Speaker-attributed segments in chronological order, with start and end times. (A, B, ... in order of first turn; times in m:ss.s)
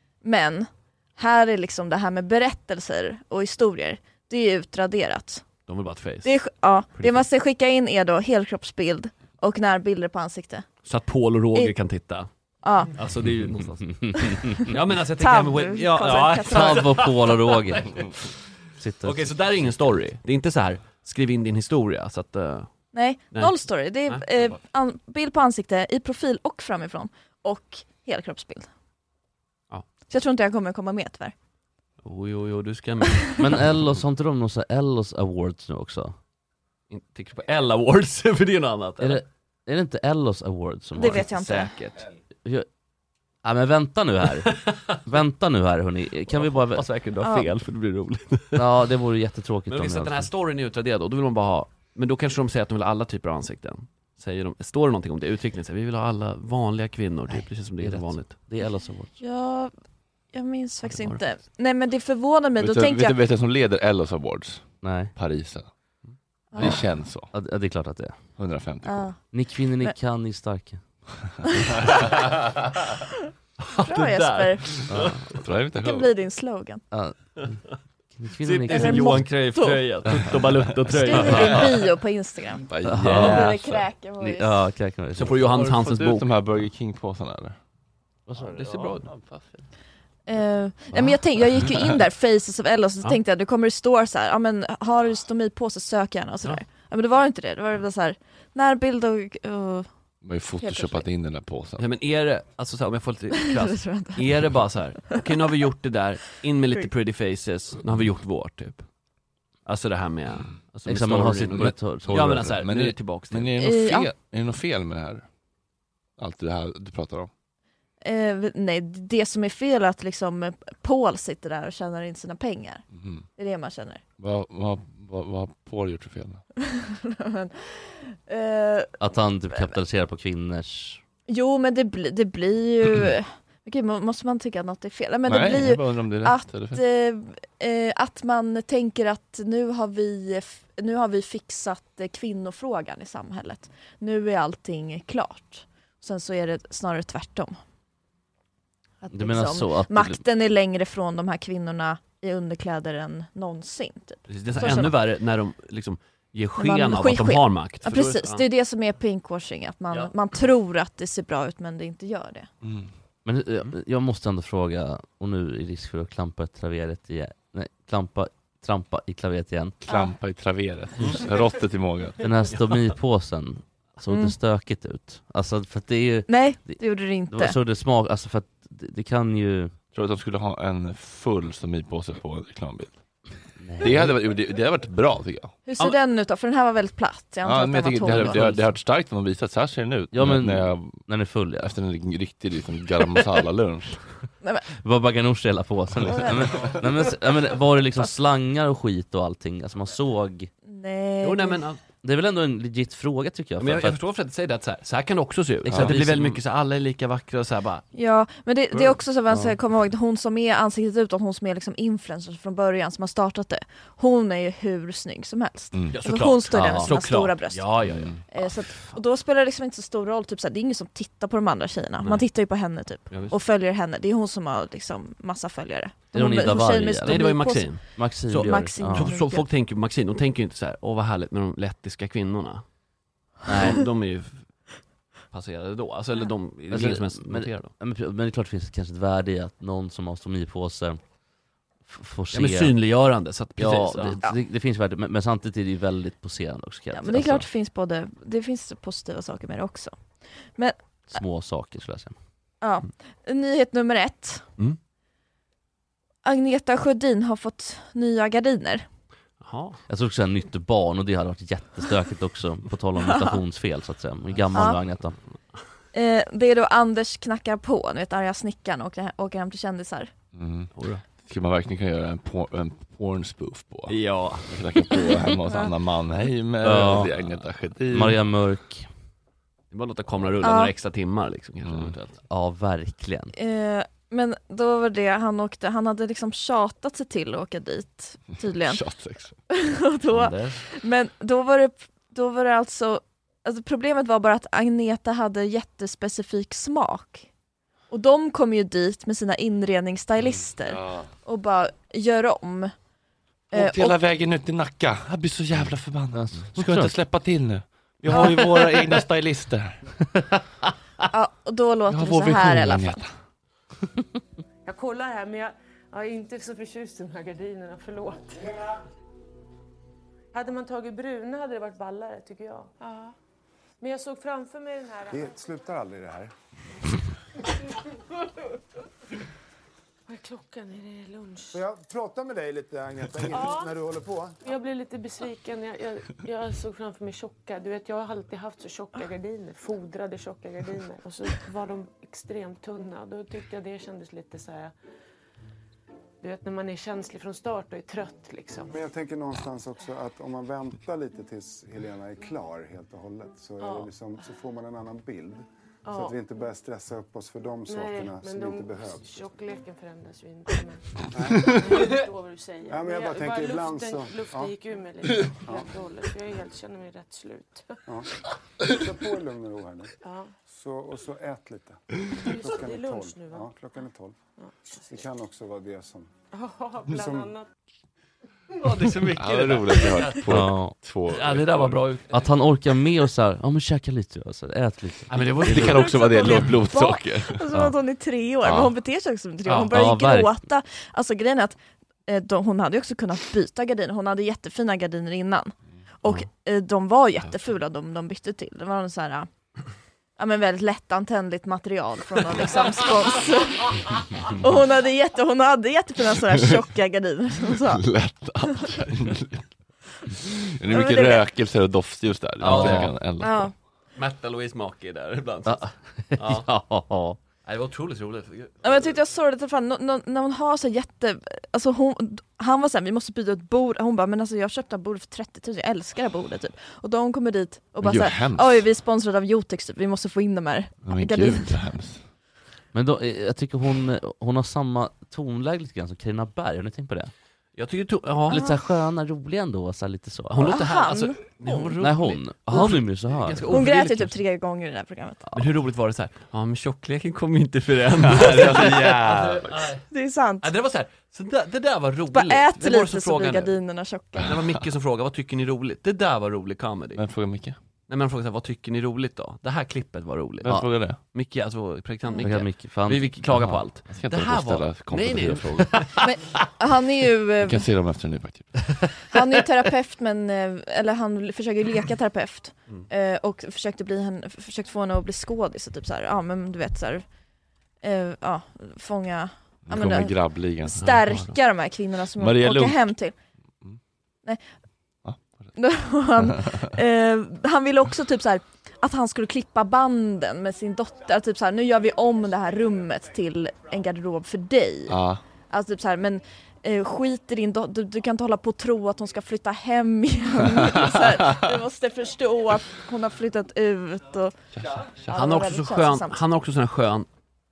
0:00.2-0:05.6 A
0:05.7-0:06.4 B
0:06.2-0:10.7 A
0:07.0-0:07.3 B
0:10.8-0:12.3 B
0:12.6-0:12.9 A
0:12.9-0:18.0 B
0:14.6-0:16.9 A
0:16.5-0:17.9 C
0:18.8-0:19.3 C
0:19.0-0:24.2 B
0:22.9-0:28.7 A
0:30.1-0:31.3 A
0:32.0-0:33.5 B
0:33.4-0:36.2 C
0:36.9-0:39.2 B
0:39.0-0:41.2 C
0:41.0-0:41.7 A
0:41.1-0:42.1 B
0:43.4-0:46.8 C
0:46.3-0:48.6 B
0:47.2-0:47.5 A
0:48.5-0:50.3 C
0:49.7-0:58.4 B
0:57.8-0:59.2 C
0:59.2-0:59.7 A
1:00.3-1:03.2 A
1:00.9-1:01.4 B
1:02.6-1:05.7 D
1:04.8-1:05.1 C
1:06.1-1:06.7 B
1:06.5-1:06.9 A
1:06.6-1:07.3 D
1:07.3-1:08.2 C
1:08.4-1:09.1 D
1:08.8-1:09.9 A
1:09.3-1:10.8 C
1:13.6-1:15.4 B
1:13.8-1:14.8 A
1:14.9-1:15.2 C
1:15.3-1:16.1 D
1:15.7-1:16.8 A
1:16.9-1:19.2 C
1:18.4-1:21.7 B
1:18.7-1:20.0 A
1:20.9-1:24.7 A
1:21.3-1:21.7 D
1:22.6-1:23.8 D
1:22.8-1:23.5 C
1:23.0-1:23.4 B
1:24.2-1:25.4 C
1:25.2-1:26.3 B
1:25.2-1:27.6 D
1:28.3-1:29.0 C
1:28.5-1:29.1 B
1:28.9-1:29.7 D
1:30.3-1:39.9 A
1:30.9-1:31.8 D
1:40.2-1:41.9 D
1:40.6-1:41.0 A
1:41.8-1:48.9 B
1:43.3-1:44.3 A
1:49.6-1:53.5 B
1:50.9-1:52.5 C
1:52.2-1:55.3 D
1:53.6-1:54.1 A
1:56.2-1:57.3 D
1:58.0-2:02.8 A
2:02.9-2:03.2 D
2:03.4-2:04.0 A
2:04.2-2:06.4 D
2:06.6-2:09.0 A
2:09.0-2:11.0 C
2:11.3-2:27.6 A
2:15.3-2:16.8 D
2:29.0-2:35.0 A
2:29.1-2:30.2 C
2:34.3-2:38.4 B
2:36.6-2:42.5 A
2:42.6-2:42.9 D
2:43.2-2:49.8 C
2:49.8-2:52.2 D
2:49.9-2:50.1 A
2:52.2-2:59.8 C
2:54.1-2:54.4 A
2:56.3-2:57.6 A
2:59.9-3:03.0 D
3:03.6-3:04.1 C
3:03.8-3:05.6 D
3:05.7-3:08.5 A
3:07.4-3:11.0 D
3:08.2-3:08.5 C
3:10.1-3:11.7 C
3:11.6-3:14.0 D
3:14.8-3:20.5 C
3:16.1-3:16.4 A
3:20.7-3:21.7 A
3:21.2-3:21.8 B
3:22.0-3:24.0 C
3:23.6-3:27.9 B
3:25.7-3:26.4 C
3:25.7-3:26.0 D
3:27.9-3:37.7 A
3:29.3-3:29.6 C
3:35.7-3:36.0 D
3:35.9-3:38.3 B
3:36.5-3:36.9 C
3:37.8-3:38.2 D
3:38.3-3:49.5 A
3:43.1-3:43.4 B
3:46.1-3:49.2 C
3:47.1-3:52.6 B
3:53.5-3:53.8 C
3:53.5-3:54.7 B
3:55.3-3:57.7 B
3:56.7-4:01.0 C
4:01.9-4:02.8 C
4:02.3-4:04.2 B
4:03.6-4:07.5 C
4:06.9-4:10.0 A
4:11.1-4:12.2 C
4:12.6-4:14.4 A
4:16.2-4:18.9 A
4:19.4-4:19.8 B
4:19.9-4:25.2 C
4:23.0-4:23.4 A
4:24.5-4:24.8 A
4:25.9-4:30.1 A
4:30.3-4:30.7 D
4:30.8-4:31.0 B
4:31.2-4:38.2 D
4:33.9-4:34.5 B
4:36.6-4:37.1 C
4:37.9-4:38.9 C
4:39.7-4:42.2 B
4:40.4-4:40.7 A
4:41.6-4:41.9 D
4:42.3-4:43.3 C
4:43.4-4:48.8 A
4:48.5-4:49.4 D
4:49.5-4:57.2 A
4:57.9-5:02.7 A
5:00.7-5:01.1 D
5:03.5-5:04.0 A
5:03.5-5:09.8 D
5:06.1-5:07.0 C
5:08.1-5:08.4 A
5:11.1-5:13.0 A
5:11.9-5:13.1 D
5:14.6-5:18.5 E
5:20.3-5:23.2 E
5:23.8-5:25.5 E
5:25.1-5:26.3 F
5:30.1-5:31.6 E
5:31.5-5:34.4 F
5:33.3-5:33.8 E
5:34.4-5:44.7 E
5:46.2-5:48.8 E
5:48.7-5:59.3 F
5:53.6-5:53.9 E
5:55.8-5:56.2 E
5:57.7-6:07.8 E
6:01.0-6:02.0 F
6:02.7-6:04.5 F
6:05.4-6:05.7 F
6:08.6-6:09.9 F
6:10.0-6:10.3 E
6:10.5-6:14.2 F
6:12.2-6:13.5 E
6:14.4-6:15.0 E
6:14.9-6:16.1 F
6:16.3-6:17.5 E
6:16.9-6:17.3 F
6:18.6-6:20.4 B
6:19.0-6:21.8 D
6:20.3-6:20.8 C
6:21.1-6:22.3 B
6:22.1-6:25.2 C
6:25.1-6:26.6 B
6:25.4-6:27.5 D
6:25.8-6:39.3 A
6:28.4-6:28.8 D
6:29.7-6:30.3 C
6:40.2-6:47.8 A
6:47.5-6:49.4 D
6:50.2-6:53.5 D
6:50.7-6:51.2 A
6:52.4-6:53.0 B
6:52.4-6:52.9 C
6:53.2-6:53.5 A
6:54.0-6:56.5 B
6:55.5-6:57.2 C
6:57.4-6:58.9 B
6:58.6-7:11.5 A
7:07.8-7:08.7 D
7:10.8-7:12.0 D
7:12.7-7:17.1 C
7:17.6-7:18.4 B
7:18.3-7:20.6 C
7:20.3-7:24.2 B
7:20.4-7:21.8 A
7:21.8-7:23.4 C
7:23.5-7:25.3 A
7:25.4-7:29.8 B
7:28.0-7:29.5 D
7:29.9-7:30.5 A
7:30.4-7:33.6 B
7:32.1-7:34.4 A
7:34.2-7:37.0 B
7:37.0-7:37.6 D
7:37.9-7:46.0 B
7:40.4-7:41.0 D
7:42.2-7:43.2 C
7:43.3-7:45.9 D
7:46.0-7:47.6 A
7:47.4-7:48.7 D
7:49.1-7:57.0 A
7:57.8-8:00.1 A
7:59.7-8:00.9 D
8:00.6-8:03.2 A
8:00.8-8:01.4 B
8:02.2-8:02.9 D
8:05.0-8:05.5 D
8:05.6-8:24.4 A
8:06.2-8:06.6 D
8:14.9-8:15.2 D
8:20.7-8:21.4 D
8:24.5-8:25.2 D
8:25.1-8:26.2 A
8:25.1-8:27.1 B